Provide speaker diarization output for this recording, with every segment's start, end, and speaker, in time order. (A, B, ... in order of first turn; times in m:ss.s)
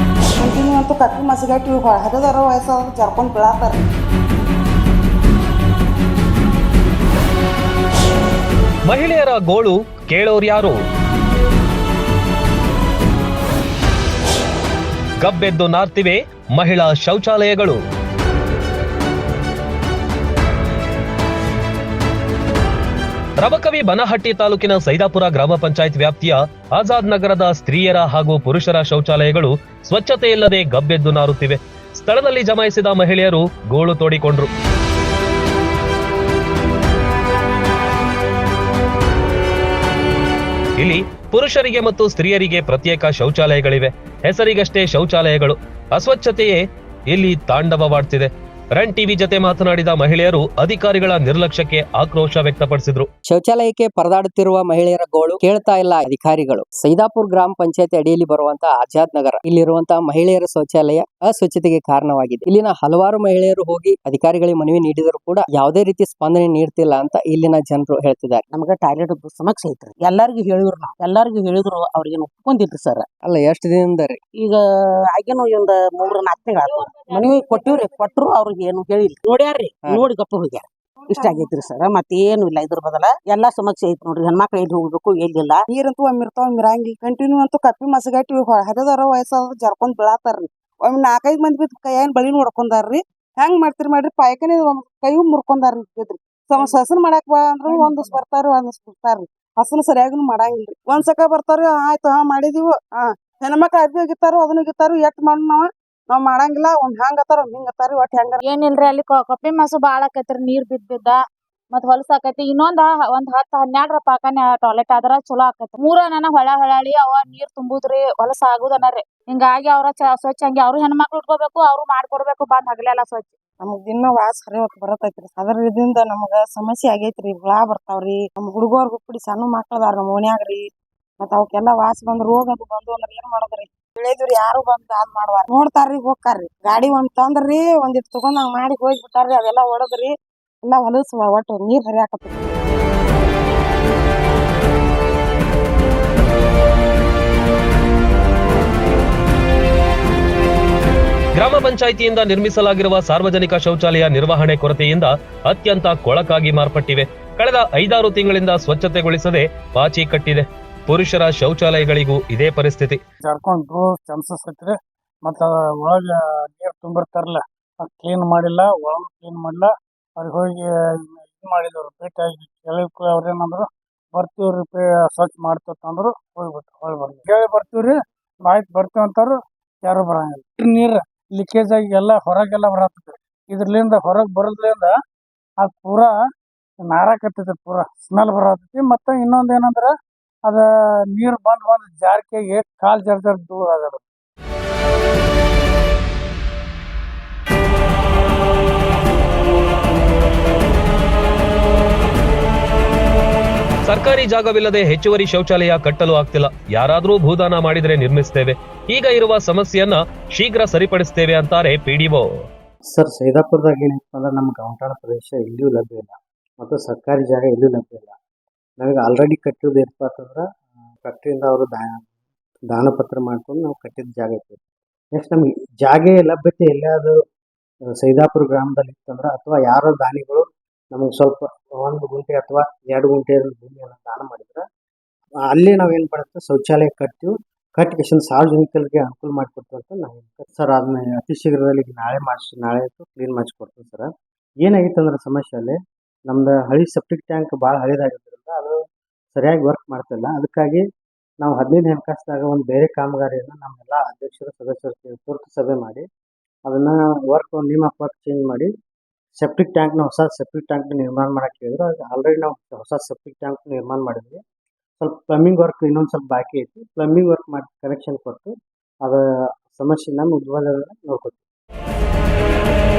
0:00.4-0:03.8 A
0:08.9-0:10.8 B
0:15.2-0:17.8 B
0:23.4-0:34.5 B
0:40.8-0:53.1 B
0:53.3-1:08.4 C
1:08.5-1:13.0 D
1:13.2-1:14.2 C
1:14.4-1:25.6 D
1:21.0-1:21.5 A
1:25.7-1:48.4 A
1:48.4-1:51.2 E
1:51.7-2:03.3 E
2:03.6-2:10.6 A
2:11.2-2:20.1 A
2:20.6-2:22.5 A
2:31.4-2:43.0 B
2:43.2-3:04.9 F
3:05.6-3:06.2 F
3:06.8-3:09.9 F
3:10.5-3:14.0 F
3:23.8-3:32.3 B
3:32.9-3:38.2 G
3:38.8-3:40.4 G
3:41.0-3:42.0 G
3:42.7-3:44.6 G
3:45.1-3:47.2 G
3:47.9-3:54.6 G
3:55.4-4:04.1 G
4:04.6-4:08.8 G
4:09.3-4:10.8 G
4:11.4-4:16.0 G
4:16.7-4:18.7 G
4:19.4-4:24.4 G
4:25.0-4:31.4 G